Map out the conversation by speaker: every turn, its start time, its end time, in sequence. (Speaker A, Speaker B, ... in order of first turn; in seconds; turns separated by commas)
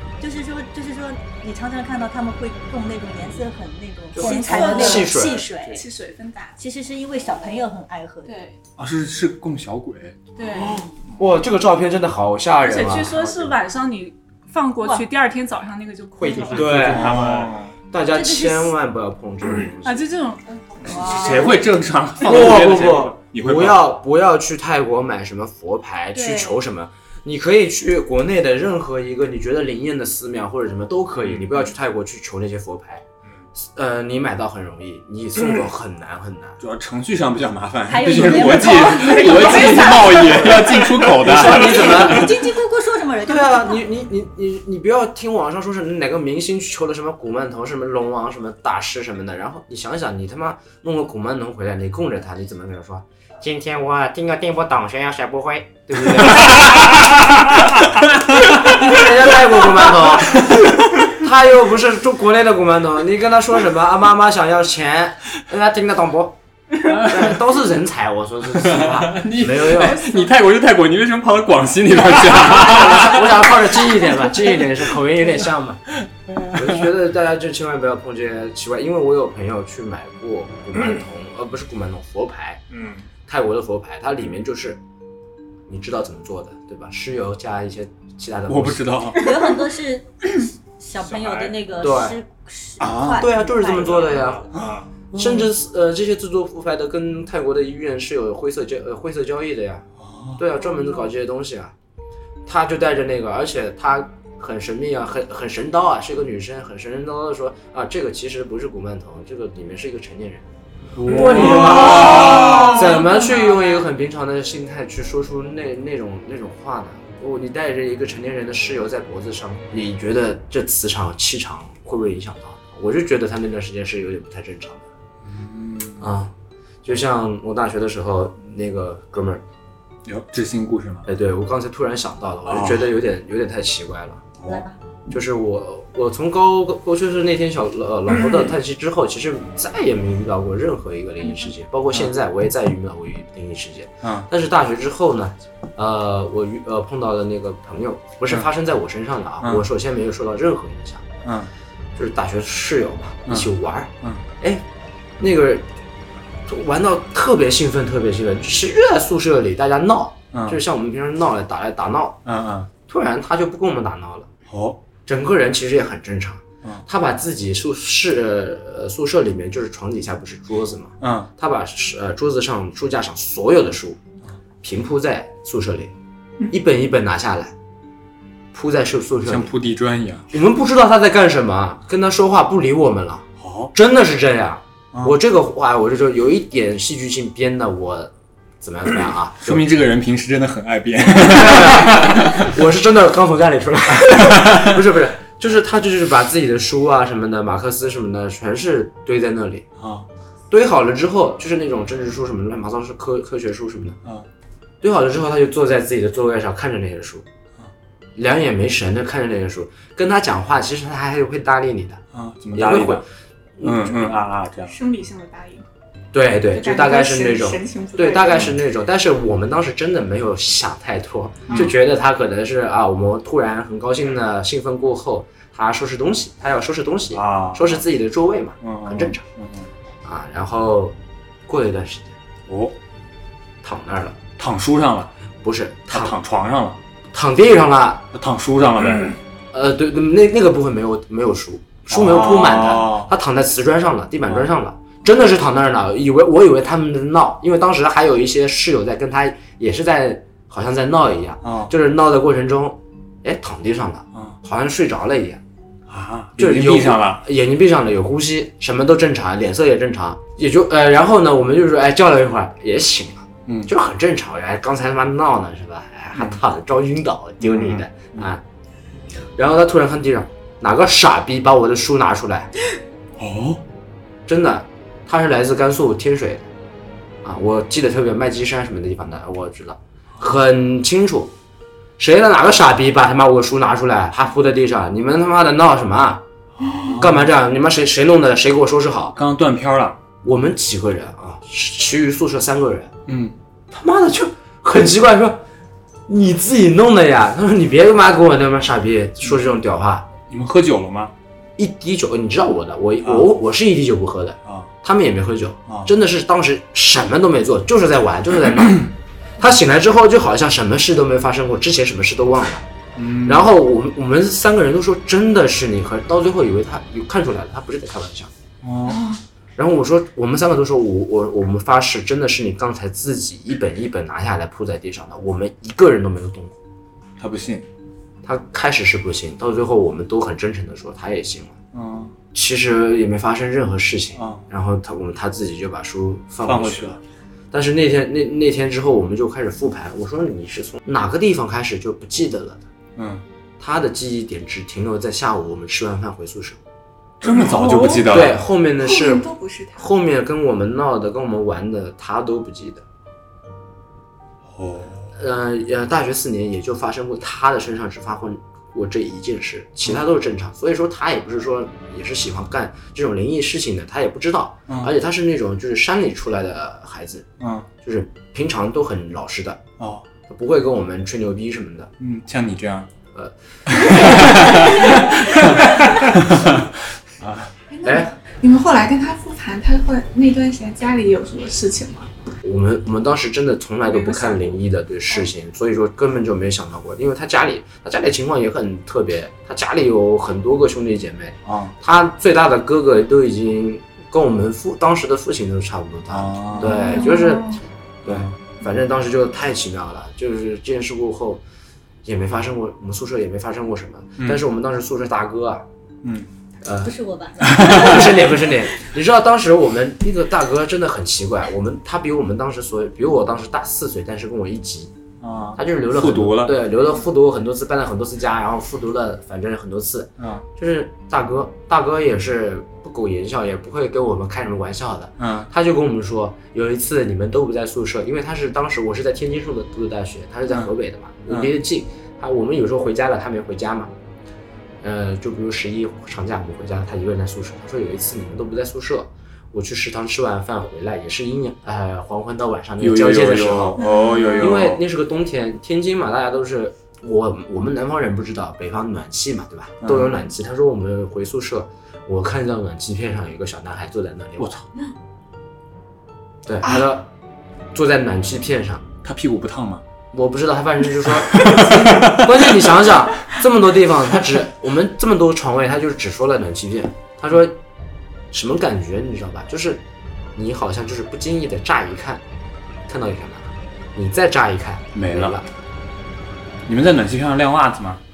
Speaker A: 0.2-5.8, Speaker B: 4.1-5.4, Speaker C: 4.1-6.6, Speaker A: 6.6-8.3, Speaker C: 8.2-8.6, Speaker D: 8.8-10.2, Speaker C: 10.3-10.9, Speaker B: 11.2-13.3, Speaker C: 12.6-16.7, Speaker B: 16.2-20.1, Speaker E: 16.3-17.5, Speaker D: 16.6-17.7, Speaker A: 18.1-18.7, Speaker C: 19.8-21.5, Speaker A: 20.8-21.6, Speaker D: 20.9-23.9, Speaker B: 22.2-33.0, Speaker C: 26.2-26.5, Speaker B: 33.6-36.6, Speaker D: 36.6-42.4, Speaker A: 37.9-43.8, Speaker B: 38.1-38.4, Speaker B: 40.5-42.3, Speaker B: 43.2-57.8, Speaker B: 58.4-70.0, Speaker D: 66.9-67.3, Speaker D: 68.6-73.4, Speaker C: 70.0-70.3, Speaker B: 72.2-75.9, Speaker D: 76.1-76.6, Speaker B: 76.5-82.6, Speaker E: 82.7-83.1, Speaker B: 83.2-84.8, Speaker B: 85.7-89.0, Speaker D: 88.5-89.3, Speaker A: 89.2-94.2, Speaker E: 91.0-91.6, Speaker B: 91.8-92.2, Speaker D: 92.8-93.2, Speaker B: 93.1-94.5, Speaker E: 93.7-94.8, Speaker D: 94.5-95.5, Speaker B: 95.1-99.8, Speaker D: 100.0-100.4, Speaker B: 100.4-101.7, Speaker B: 102.5-110.5, Speaker D: 111.0-112.8, Speaker B: 111.0-124.8, Speaker C: 112.4-112.7, Speaker D: 125.2-126.1, Speaker B: 126.0-129.4, Speaker D: 130.1-131.1, Speaker B: 131.1-134.3, Speaker D: 132.5-132.9, Speaker A: 134.4-134.8, Speaker B: 135.1-151.1, Speaker D: 144.0-144.3, Speaker D: 151.2-151.5, Speaker B: 151.9-154.7, Speaker D: 153.3-154.2, Speaker B: 155.2-155.7, Speaker B: 156.4-162.2, Speaker D: 160.3-160.6, Speaker D: 162.2-162.7, Speaker B: 162.9-164.3, Speaker D: 164.5-164.8, Speaker B: 165.0-174.0, Speaker D: 171.0-171.3, Speaker B: 174.6-175.9, Speaker B: 176.5-177.5, Speaker B: 178.5-179.5, Speaker D: 179.3-180.3, Speaker B: 180.3-189.6, Speaker D: 183.4-183.7, Speaker D: 189.4-192.5, Speaker B: 191.2-199.6, Speaker D: 194.1-194.8, Speaker D: 199.8-200.1, Speaker B: 200.5-204.0, Speaker B: 204.8-207.2, Speaker B: 208.2-212.0, Speaker D: 212.1-213.0, Speaker B: 212.5-213.0, Speaker B: 213.6-214.2, Speaker D: 213.6-214.7, Speaker C: 214.7-215.7, Speaker B: 216.1-229.2, Speaker C: 216.5-218.5, Speaker D: 221.5-221.7, Speaker D: 227.1-227.8, Speaker D: 228.6-229.7, Speaker B: 230.0-232.1, Speaker D: 232.5-232.7, Speaker B: 233.6-234.2, Speaker D: 234.4-235.1, Speaker B: 235.4-236.2, Speaker D: 235.9-236.8, Speaker B: 237.1-238.1, Speaker D: 238.1-239.2, Speaker B: 239.5-255.4, Speaker D: 241.9-243.1, Speaker D: 251.4-251.7, Speaker D: 255.9-257.2, Speaker B: 256.4-268.4, Speaker D: 267.4-268.3, Speaker B: 269.4-272.5, Speaker D: 273.2-273.6, Speaker B: 274.3-276.5, Speaker B: 277.2-281.3, Speaker B: 282.0-286.2, Speaker D: 286.6-287.3, Speaker B: 287.0-289.1, Speaker D: 289.1-290.0, Speaker B: 290.2-292.9, Speaker D: 293.1-293.3, Speaker B: 293.7-295.4, Speaker B: 296.1-300.1, Speaker D: 300.3-301.1, Speaker B: 301.6-312.7, Speaker D: 303.0-303.3, Speaker D: 312.9-313.5, Speaker B: 313.2-318.3, Speaker D: 318.6-319.0, Speaker C: 318.9-319.2, Speaker B: 319.6-326.6, Speaker D: 327.2-327.6, Speaker B: 328.2-331.6, Speaker D: 331.7-332.1, Speaker B: 332.3-337.0, Speaker D: 334.1-334.4, Speaker D: 336.4-337.0, Speaker B: 337.5-342.7, Speaker D: 342.9-343.2, Speaker B: 343.6-346.6, Speaker D: 347.2-348.4, Speaker C: 347.2-348.1, Speaker B: 348.1-352.8, Speaker C: 348.8-349.9, Speaker D: 354.5-355.1, Speaker B: 355.1-367.2, Speaker D: 367.4-367.7, Speaker B: 367.8-369.6, Speaker D: 369.8-370.1, Speaker B: 370.3-371.9, Speaker D: 372.0-372.9, Speaker B: 373.1-375.1, Speaker D: 373.7-377.5, Speaker C: 374.6-375.9, Speaker C: 377.7-382.1, Speaker B: 377.8-378.1, Speaker B: 382.4-401.4, Speaker C: 383.9-384.5, Speaker D: 391.4-391.7, Speaker D: 396.1-397.0, Speaker C: 396.8-397.6, Speaker D: 398.0-398.3, Speaker B: 402.0-405.6, Speaker B: 406.6-406.9, Speaker A: 406.8-408.5, Speaker D: 407.4-408.1, Speaker B: 407.5-414.9, Speaker D: 415.2-416.6, Speaker B: 415.6-433.9, Speaker D: 420.2-420.4, Speaker D: 425.2-425.5, Speaker D: 431.3-431.5, Speaker B: 434.8-443.8, Speaker D: 442.8-444.8, Speaker C: 443.8-444.4, Speaker B: 444.4-454.6, Speaker D: 449.8-450.1, Speaker B: 456.4-457.1, Speaker B: 457.7-458.8, Speaker D: 459.0-459.8, Speaker B: 460.1-467.6, Speaker D: 461.2-462.7, Speaker B: 468.3-469.8, Speaker B: 470.3-472.2, Speaker B: 472.9-475.5, Speaker D: 474.9-475.4, Speaker D: 476.7-478.0